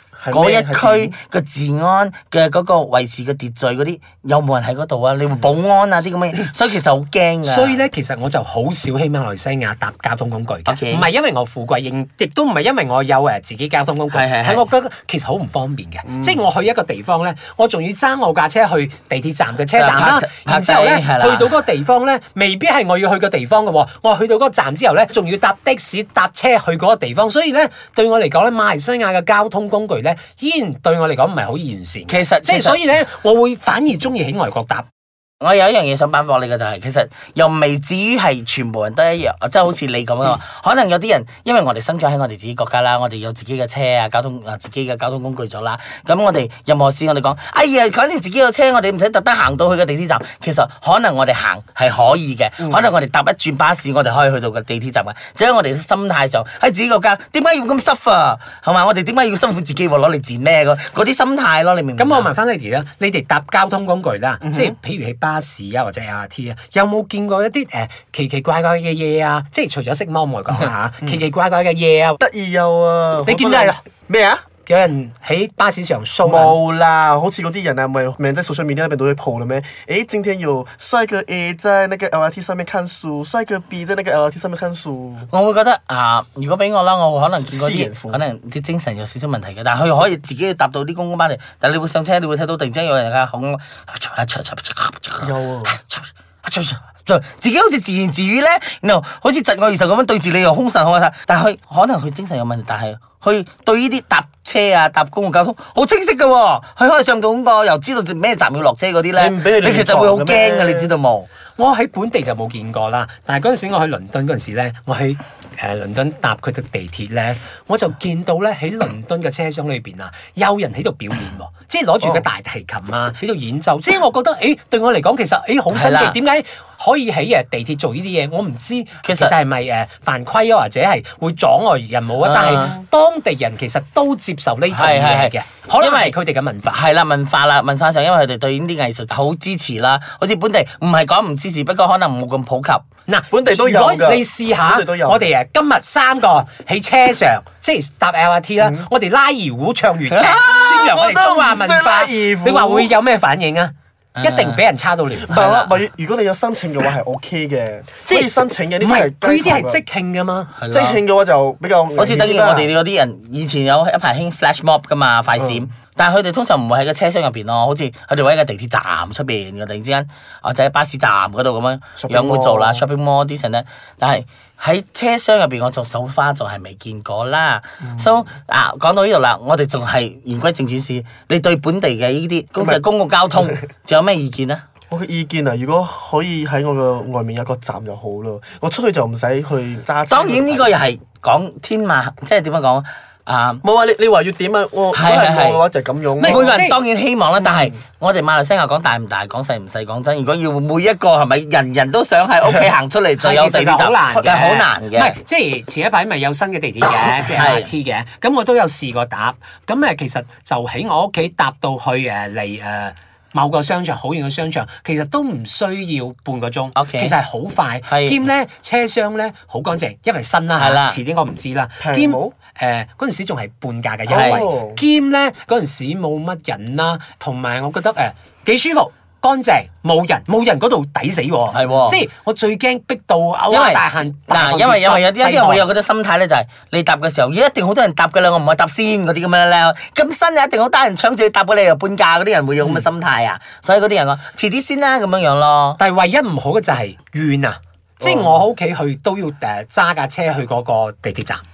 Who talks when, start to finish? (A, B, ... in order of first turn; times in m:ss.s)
0:00.2-0:01.2 A
0:00.3-0:07.8 B
0:07.4-0:34.9 C
0:10.7-0:11.1 B
0:14.1-0:14.7 B
0:19.8-0:21.6 B
0:32.1-0:32.8 B
0:35.4-1:02.3 B
0:52.6-0:52.9 A
1:02.0-1:12.2 C
1:04.4-1:04.8 A
1:12.2-1:14.4 A
1:13.3-1:13.8 C
1:14.7-1:16.6 C
1:16.2-1:25.3 A
1:25.3-1:51.3 B
1:27.5-1:28.2 A
1:35.2-1:35.8 A
1:49.2-1:50.9 A
1:51.6-2:16.8 C
2:05.7-2:06.2 B
2:09.0-2:09.4 B
2:12.2-2:12.8 B
2:14.7-2:16.2 B
2:16.7-2:22.8 B
2:23.1-2:35.7 C
2:23.3-2:25.3 A
2:30.1-2:30.7 B
2:30.5-2:32.9 A
2:34.2-2:34.6 B
2:35.3-2:39.8 A
2:38.0-2:40.5 C
2:40.6-2:41.0 B
2:40.7-2:42.7 A
2:42.0-3:04.6 B
2:45.4-2:45.7 A
2:52.0-2:52.8 A
2:57.8-2:58.1 A
3:04.9-3:10.7 A
3:10.1-3:13.6 B
3:13.6-3:16.6 A
3:14.9-3:15.6 B
3:16.2-3:16.8 C
3:16.2-3:25.2 B
3:17.4-3:17.8 A
3:23.2-3:55.7 C
3:26.8-3:27.7 B
3:36.8-3:37.2 B
3:37.9-3:38.2 B
3:40.6-3:41.0 B
3:41.8-3:42.4 A
3:44.1-3:44.8 A
3:44.1-3:44.5 B
3:51.5-3:52.0 B
3:53.5-4:05.8 B
4:05.8-4:11.4 C
4:08.0-4:08.4 A